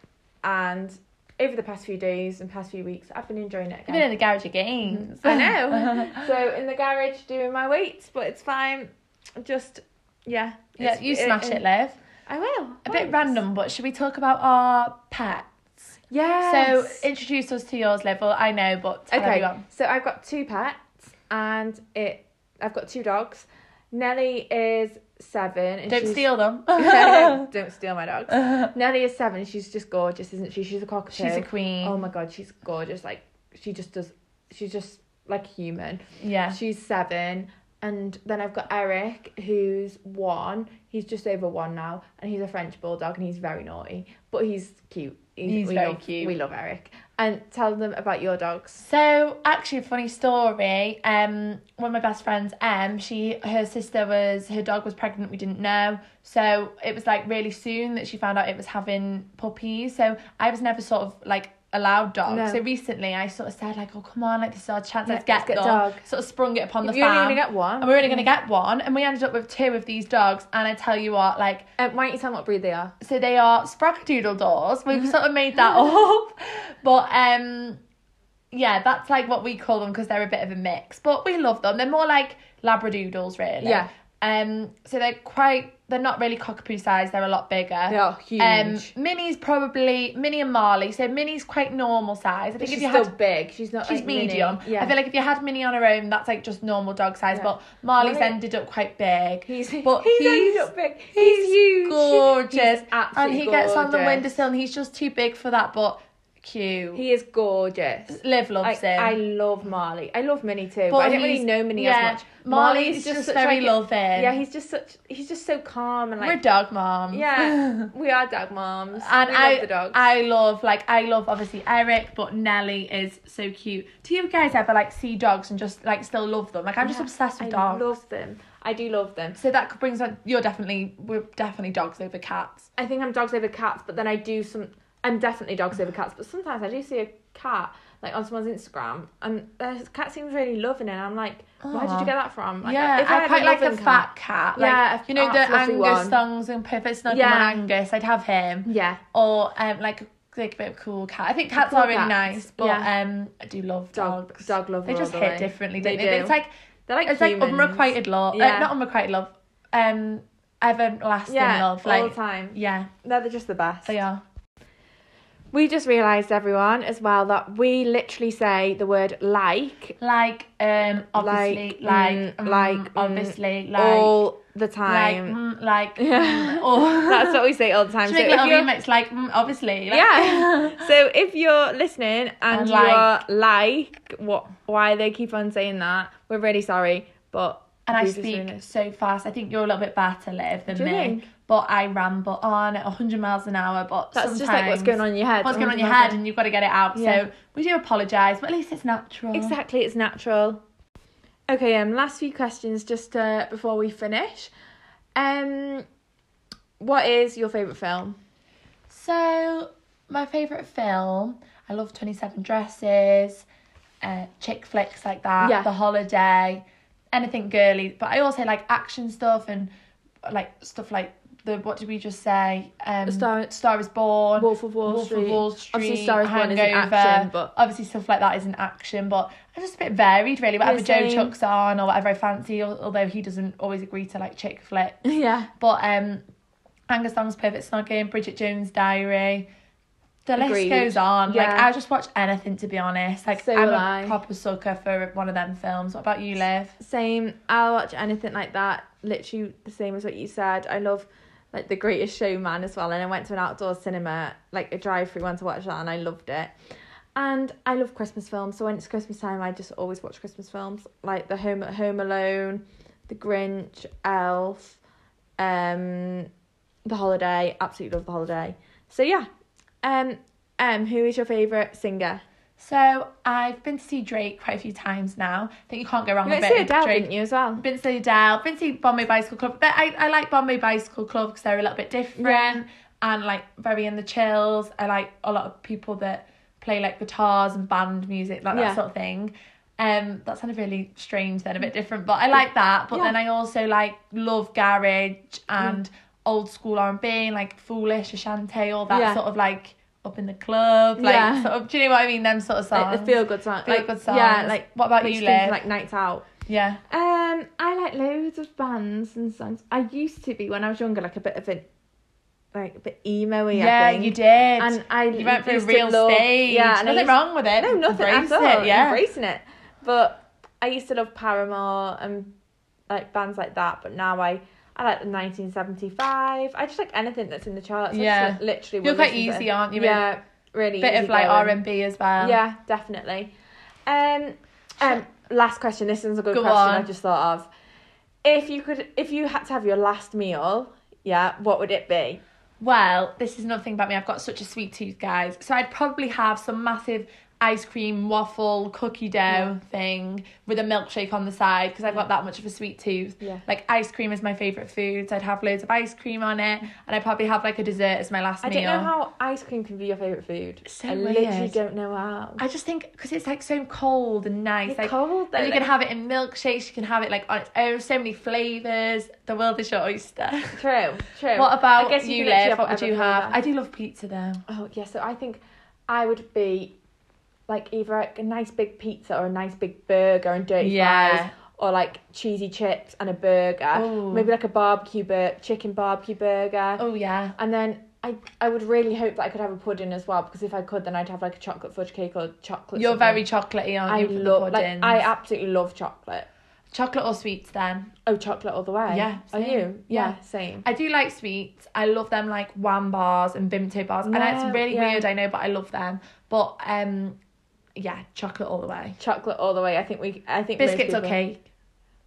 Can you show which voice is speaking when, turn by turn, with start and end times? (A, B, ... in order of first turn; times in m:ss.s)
0:00.4-0:04.1 A
0:03.9-0:06.2 B
0:04.9-0:11.6 A
0:10.8-0:12.0 B
0:12.3-0:13.4 A
0:12.9-0:15.5 B
0:16.1-0:17.0 A
0:16.5-0:19.6 B
0:19.1-0:48.8 A
0:25.9-0:27.5 B
0:28.3-0:28.7 B
0:31.1-0:32.0 B
0:36.2-0:36.6 B
0:45.4-0:46.4 B
0:48.8-1:11.7 B
1:02.3-1:02.6 A
1:05.1-1:06.0 A
1:06.8-1:08.3 A
1:11.8-1:12.9 A
1:13.0-1:17.8 B
1:18.5-1:33.1 B
1:23.6-1:23.9 A
1:27.9-1:28.9 A
1:32.6-1:35.0 A
1:33.9-1:47.0 B
1:37.3-1:38.4 A
1:39.5-1:44.3 A
1:46.9-1:56.4 A
1:48.1-1:49.2 B
1:50.9-1:54.4 B
1:56.2-1:57.9 B
1:57.1-2:00.0 A
1:59.0-2:07.9 B
2:06.8-2:09.4 A
2:09.4-2:12.7 B
2:12.8-2:26.2 A
2:21.6-2:22.1 B
2:22.6-2:36.5 B
2:27.1-2:27.6 A
2:28.7-2:29.0 A
2:31.6-2:32.9 A
2:33.9-2:36.4 A
2:36.9-2:38.7 A
2:37.0-2:42.9 B
2:41.3-2:44.0 A
2:43.8-2:44.2 B
2:45.5-2:50.0 A
2:50.0-2:54.2 B
2:51.0-2:55.4 A
2:54.9-2:57.4 B
2:56.0-2:58.7 A
2:58.0-3:00.9 B
2:59.9-3:08.7 A
3:02.5-3:03.2 B
3:07.9-3:19.6 B
3:10.7-3:11.3 A
3:14.1-3:16.2 A
3:17.0-3:17.2 A
3:19.3-3:20.6 A
3:21.5-3:24.5 A
3:25.2-3:25.8 A
3:26.8-3:28.2 A
3:28.9-3:33.5 B
3:34.0-3:39.7 B
3:35.4-3:35.7 A
3:40.2-3:55.0 B
3:43.0-3:43.5 A
3:44.4-3:47.5 A
3:50.6-3:51.3 A
3:55.0-3:55.5 A
3:55.6-3:56.2 B
3:56.9-3:59.5 B
4:00.3-4:06.8 B
4:00.4-4:01.7 A
4:03.4-4:04.2 A
4:06.8-4:16.5 A
4:17.2-4:24.8 A
4:25.4-4:26.3 A
4:26.8-4:29.3 A
4:29.8-4:32.2 A
4:32.6-5:05.6 B
4:36.2-4:37.6 A
4:42.2-4:42.6 A
4:48.5-4:48.8 A
4:58.9-4:59.2 A
5:01.0-5:01.5 A
5:02.7-5:06.3 A
5:06.5-5:06.8 B
5:06.9-5:11.7 A
5:12.5-5:22.4 A
5:13.5-5:19.0 B
5:22.9-5:31.6 A
5:27.9-5:30.1 B
5:30.8-5:32.4 B
5:32.2-5:33.3 A
5:33.9-5:37.5 A
5:36.3-5:36.9 B
5:38.2-5:42.2 A
5:42.6-5:58.9 B
5:58.4-6:02.4 A
6:00.6-6:01.6 B
6:02.4-6:10.6 B
6:04.7-6:05.6 A
6:10.6-6:13.4 A
6:11.4-6:14.4 B
6:14.5-6:16.8 A
6:17.5-6:26.8 A
6:20.6-6:21.3 B
6:23.7-6:24.3 B
6:26.8-6:27.4 B
6:27.4-6:33.2 A
6:32.8-6:35.1 B
6:33.9-6:36.3 A
6:36.7-6:37.9 B
6:38.1-6:40.6 A
6:38.9-6:47.2 B
6:44.1-6:45.1 A
6:47.8-6:49.0 B
6:49.0-6:51.2 A
6:50.6-6:51.4 B